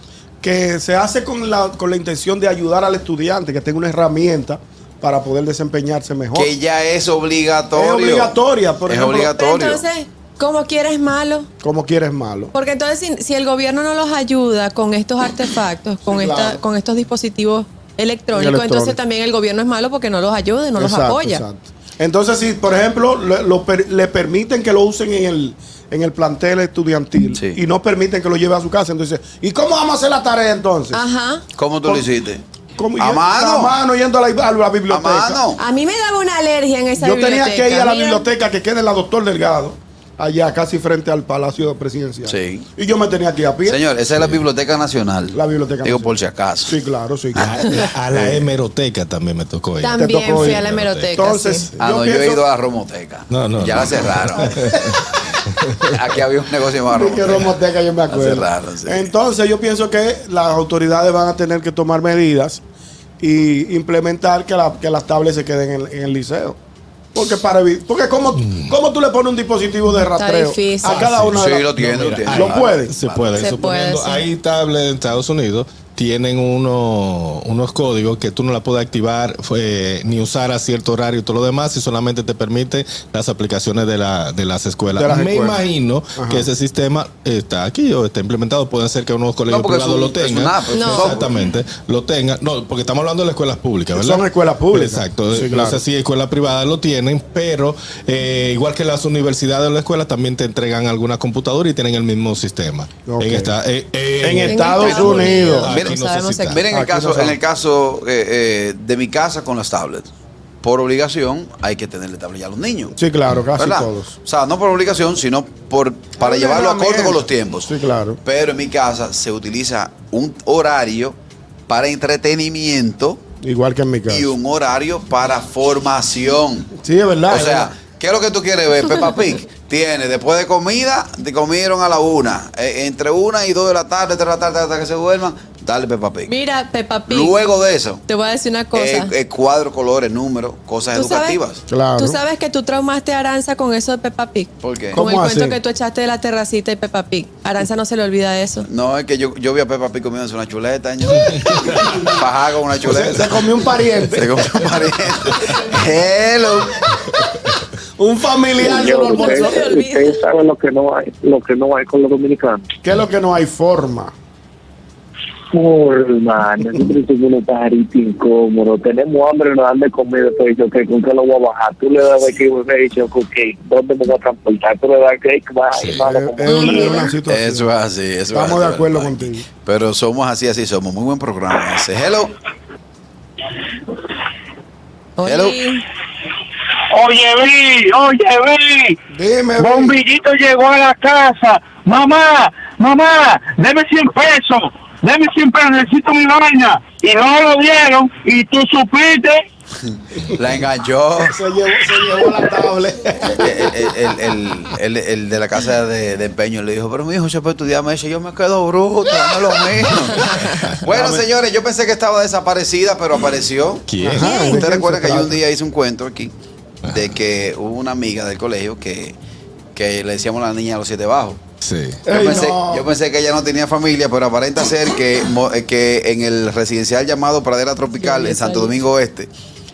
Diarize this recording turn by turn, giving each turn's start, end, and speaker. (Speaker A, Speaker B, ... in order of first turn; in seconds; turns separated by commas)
Speaker A: 0.4-6.5, Speaker B: 6.3-8.3, Speaker A: 7.8-9.4, Speaker B: 8.9-9.8, Speaker C: 9.4-11.5, Speaker A: 11.6-12.5, Speaker C: 12.5-21.4, Speaker A: 16.1-16.6, Speaker A: 18.3-19.0, Speaker A: 20.8-31.0, Speaker B: 27.4-27.6, Speaker C: 30.9-31.4, Speaker B: 31.6-32.4, Speaker A: 32.8-35.4, Speaker B: 33.0-33.8, Speaker B: 34.9-35.6, Speaker C: 35.6-38.3, Speaker A: 37.0-43.8, Speaker B: 42.2-42.7, Speaker B: 43.7-46.8, Speaker D: 44.2-44.4, Speaker A: 45.3-46.1, Speaker A: 46.6-48.4, Speaker D: 47.4-51.2, Speaker C: 49.8-51.7, Speaker A: 50.0-50.6, Speaker A: 51.1-52.4, Speaker B: 51.8-54.6, Speaker D: 53.3-56.0, Speaker B: 55.9-57.5, Speaker A: 56.9-62.6, Speaker B: 58.1-59.1, Speaker A: 63.2-66.6, Speaker A: 67.2-71.7, Speaker D: 68.4-68.8, Speaker C: 70.2-71.0, Speaker D: 70.8-106.6, Speaker B: 71.3-73.4, Speaker A: 72.3-72.9, Speaker C: 73.3-74.2, Speaker A: 84.9-85.6, Speaker A: 86.2-86.5, Speaker B: 89.5-91.4, Speaker C: 90.7-91.1, Speaker A: 94.0-95.8, Speaker A: 103.1-103.5, Speaker A: 104.2-105.7, Speaker C: 104.5-106.6, Speaker B: 104.8-106.0, Speaker B: 106.5-110.1, Speaker A: 106.7-107.4, Speaker B: 110.6-113.0, Speaker A: 113.0-114.1, Speaker B: 113.6-117.7, Speaker A: 116.2-118.2, Speaker B: 118.2-121.2, Speaker B: 121.7-123.2, Speaker A: 123.4-124.3, Speaker B: 124.1-126.7, Speaker A: 126.8-127.7, Speaker B: 127.3-136.3, Speaker C: 136.3-137.4, Speaker B: 137.1-138.0, Speaker C: 138.1-139.1, Speaker B: 138.7-141.6, Speaker C: 140.9-141.4, Speaker A: 141.7-142.2, Speaker C: 142.0-148.7, Speaker B: 144.6-145.0, Speaker A: 144.9-145.6, Speaker B: 148.7-153.4, Speaker D: 151.3-152.0, Speaker D: 152.8-153.3, Speaker A: 152.9-154.5, Speaker B: 154.2-156.8, Speaker A: 158.0-159.6, Speaker E: 158.6-162.7, Speaker C: 158.6-160.2, Speaker A: 162.8-164.1, Speaker E: 165.5-177.0, Speaker D: 175.8-176.0, Speaker A: 176.0-177.7, Speaker C: 176.5-177.1, Speaker B: 177.3-182.3, Speaker A: 178.3-179.5, Speaker C: 185.2-185.8, Speaker B: 185.3-185.6, Speaker F: 186.9-189.0, Speaker A: 189.1-190.0, Speaker F: 189.6-199.4, Speaker B: 200.3-201.4, Speaker A: 201.2-203.9, Speaker B: 203.4-213.9, Speaker C: 210.3-210.6, Speaker D: 210.4-210.8, Speaker A: 210.8-211.2, Speaker D: 213.9-214.4, Speaker A: 214.0-215.4, Speaker C: 214.2-214.6, Speaker B: 214.4-216.3, Speaker B: 216.9-219.2, Speaker B: 219.8-221.4, Speaker D: 221.6-222.0, Speaker A: 222.1-222.9, Speaker B: 222.1-229.3, Speaker C: 227.9-228.7